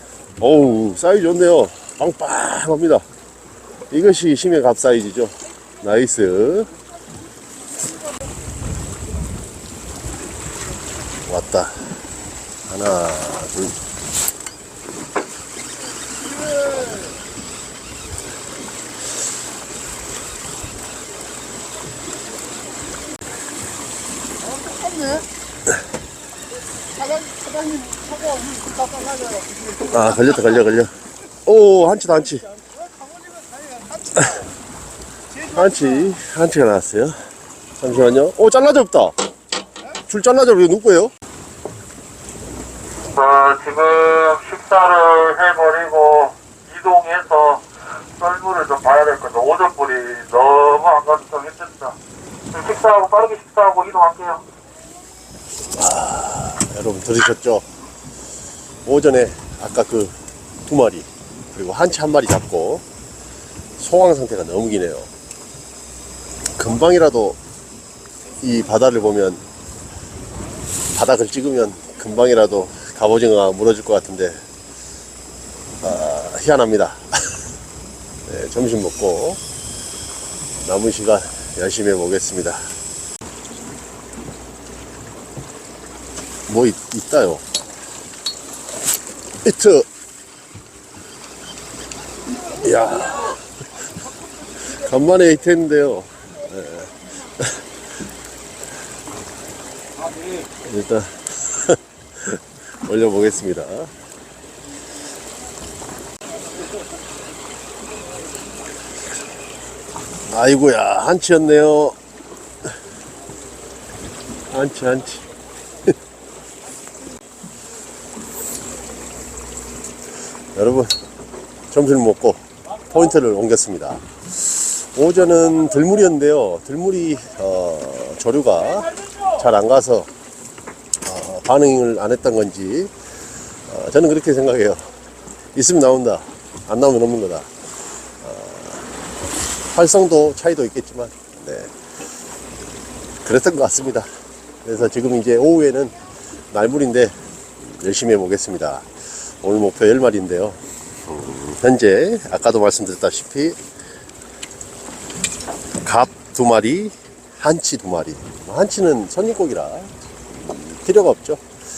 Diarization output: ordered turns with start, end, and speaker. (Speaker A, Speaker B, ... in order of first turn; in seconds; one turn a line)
Speaker A: 0.4-3.0
Speaker A: 3.9-6.7
Speaker A: 11.3-11.9
Speaker A: 12.7-13.8
Speaker B: 16.4-17.0
Speaker B: 24.5-25.2
Speaker B: 26.9-29.7
Speaker A: 29.8-30.9
Speaker A: 31.4-32.5
Speaker B: 32.7-34.1
Speaker A: 34.1-34.5
Speaker A: 35.4-37.2
Speaker A: 37.8-39.1
Speaker A: 40.1-41.1
Speaker C: 43.1-52.0
Speaker C: 52.5-54.4
Speaker A: 55.7-57.6
Speaker A: 58.9-60.1
Speaker A: 60.7-62.8
Speaker A: 63.8-65.1
Speaker A: 66.6-67.4
Speaker A: 68.4-69.4
Speaker A: 70.9-74.4
Speaker A: 75.8-77.4
Speaker A: 78.3-79.4
Speaker A: 80.6-82.7
Speaker A: 86.5-87.4
Speaker A: 89.4-89.9
Speaker A: 92.5-93.4
Speaker A: 94.6-97.6
Speaker A: 100.6-103.9
Speaker A: 110.3-112.0
Speaker A: 114.5-115.3
Speaker A: 120.5-121.0
Speaker A: 121.7-130.1
Speaker A: 131.0-132.9
Speaker A: 133.7-134.9
Speaker A: 135.6-137.5
Speaker A: 138.2-138.9
Speaker A: 139.7-141.7
Speaker A: 143.2-144.1
Speaker A: 144.6-146.0
Speaker A: 146.5-153.6
Speaker A: 155.8-159.9
Speaker A: 160.5-161.4